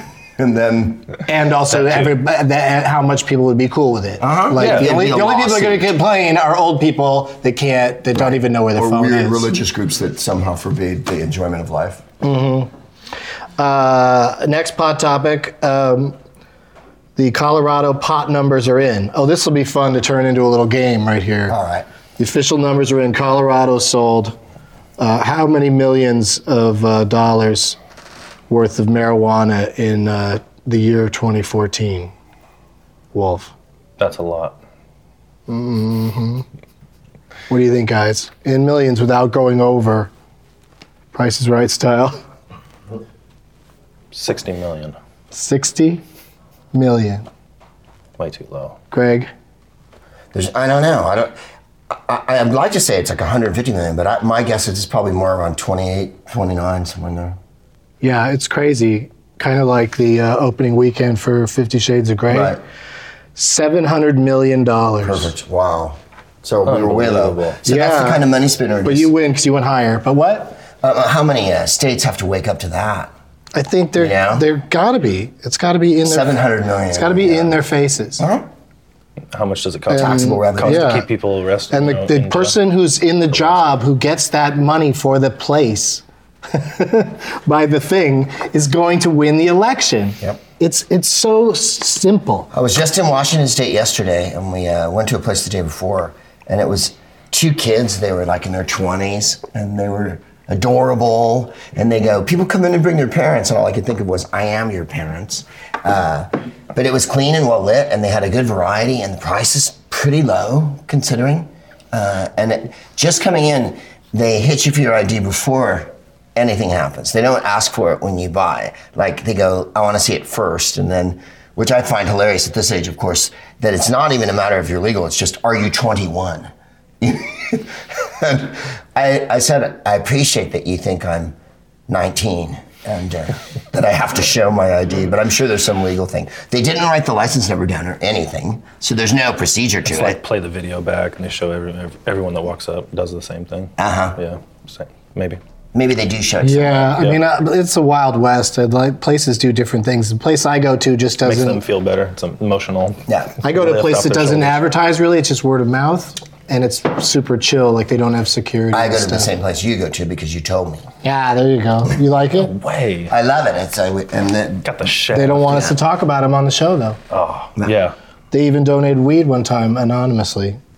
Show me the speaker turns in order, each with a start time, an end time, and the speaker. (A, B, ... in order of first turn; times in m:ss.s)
0:00.4-0:01.1 A
0:01.3-0:09.5 B
0:04.2-0:05.9 A
0:04.6-0:05.0 C
0:08.1-0:12.0 A
0:12.2-0:12.7 B
0:13.6-0:16.2 B
0:17.2-0:21.6 B
0:21.5-0:21.8 A
0:22.2-0:24.4 B
0:25.0-0:27.8 B
0:28.5-0:32.1 B
0:33.1-0:33.5 B
0:34.0-0:34.6 C
0:35.5-0:36.4 B
0:37.5-0:40.1 B
0:41.1-0:42.2 B
0:44.1-0:45.0 C
0:45.3-0:46.0 B
0:46.7-0:47.2 B
0:48.2-0:48.8 C
0:48.9-0:49.3 B
0:50.3-0:51.3 A
0:51.9-0:57.4 A
0:58.0-1:02.6 B
1:02.3-1:02.6 A
1:03.4-1:05.3 B
1:05.0-1:09.1 A
1:06.6-1:07.6 C
1:07.6-1:08.2 B
1:08.8-1:10.6 B
1:10.7-1:13.1 A
1:13.5-1:16.4 B
1:14.0-1:14.4 A
1:16.0-1:17.6 A
1:16.9-1:18.2 B
1:18.2-1:18.5 A
1:19.3-1:22.6 C
1:19.9-1:21.0 B
1:19.9-1:21.0 A
1:21.7-1:32.5 B
1:32.5-2:11.4 A
2:11.9-2:20.2 A
2:19.9-2:25.4 C
2:23.8-2:24.2 A
2:25.7-2:27.0 A
2:26.4-2:31.6 B
2:31.2-2:34.6 C
2:33.1-2:33.3 A
2:33.4-2:39.3 B
2:38.7-2:40.8 A
2:41.0-2:42.5 B
2:42.3-2:43.1 C
2:43.1-2:44.7 A
2:44.6-2:45.7 C
2:45.1-2:47.0 B
2:47.1-2:47.9 C
2:48.3-2:50.6 B